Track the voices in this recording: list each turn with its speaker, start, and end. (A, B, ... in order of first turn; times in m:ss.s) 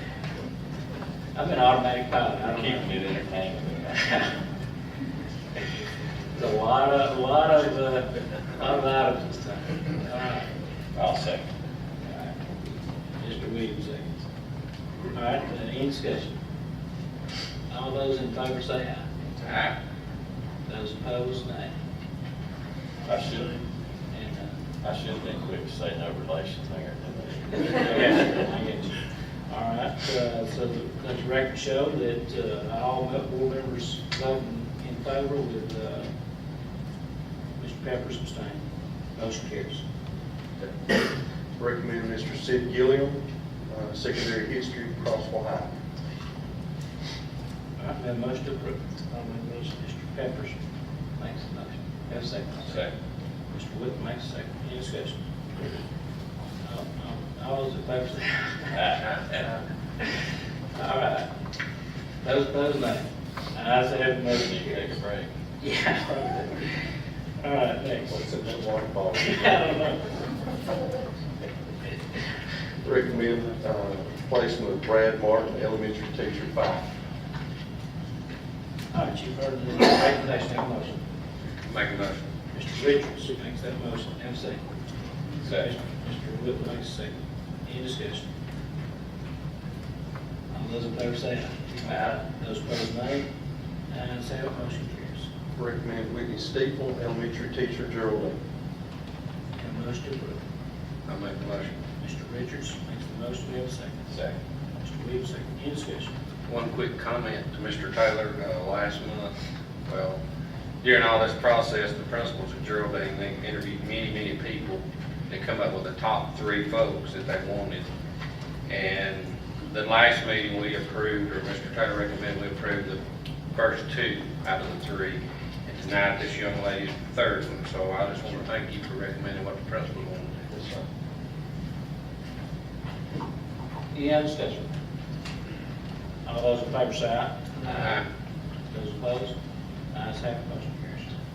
0:01.3-0:02.9 A
0:02.5-0:04.2 B
0:06.4-0:10.5 A
0:11.0-0:11.4 B
0:12.0-0:12.4 A
0:13.2-0:14.1 A
0:15.1-0:16.3 A
0:17.7-0:19.1 A
0:19.4-0:19.8 C
0:20.7-0:21.7 A
0:23.1-0:23.6 B
0:24.1-0:24.5 A
0:24.8-0:28.4 B
0:27.7-0:29.0 A
0:29.5-0:36.1 A
0:37.6-0:38.6 A
0:39.2-0:39.8 A
0:40.6-0:41.0 D
0:41.6-0:45.7 D
0:47.8-0:50.6 A
0:51.2-0:52.8 A
0:53.5-0:55.2 A
0:56.6-0:58.8 A
0:58.7-0:59.0 B
0:59.3-1:00.1 A
1:00.8-1:01.3 A
1:02.2-1:04.9 A
1:04.3-1:05.3 B
1:05.6-1:06.7 A
1:07.4-1:08.1 A
1:08.1-1:09.4 D
1:09.2-1:10.0 A
1:12.8-1:16.8 D
1:18.9-1:21.0 A
1:21.7-1:22.2 C
1:22.5-1:24.6 A
1:25.4-1:25.7 B
1:25.5-1:27.1 A
1:27.7-1:28.2 A
1:30.5-1:33.3 A
1:33.9-1:35.3 A
1:35.6-1:38.4 D
1:39.6-1:40.4 A
1:41.1-1:41.7 C
1:42.0-1:44.0 A
1:44.1-1:44.4 B
1:44.8-1:46.1 A
1:46.5-1:49.3 C
1:49.9-1:50.2 C
1:50.8-1:57.9 C
1:58.7-2:03.0 C
2:03.5-2:10.8 C
2:13.9-2:14.7 A
2:16.2-2:18.0 A
2:17.7-2:18.0 C
2:18.7-2:19.3 A
2:19.9-2:21.1 A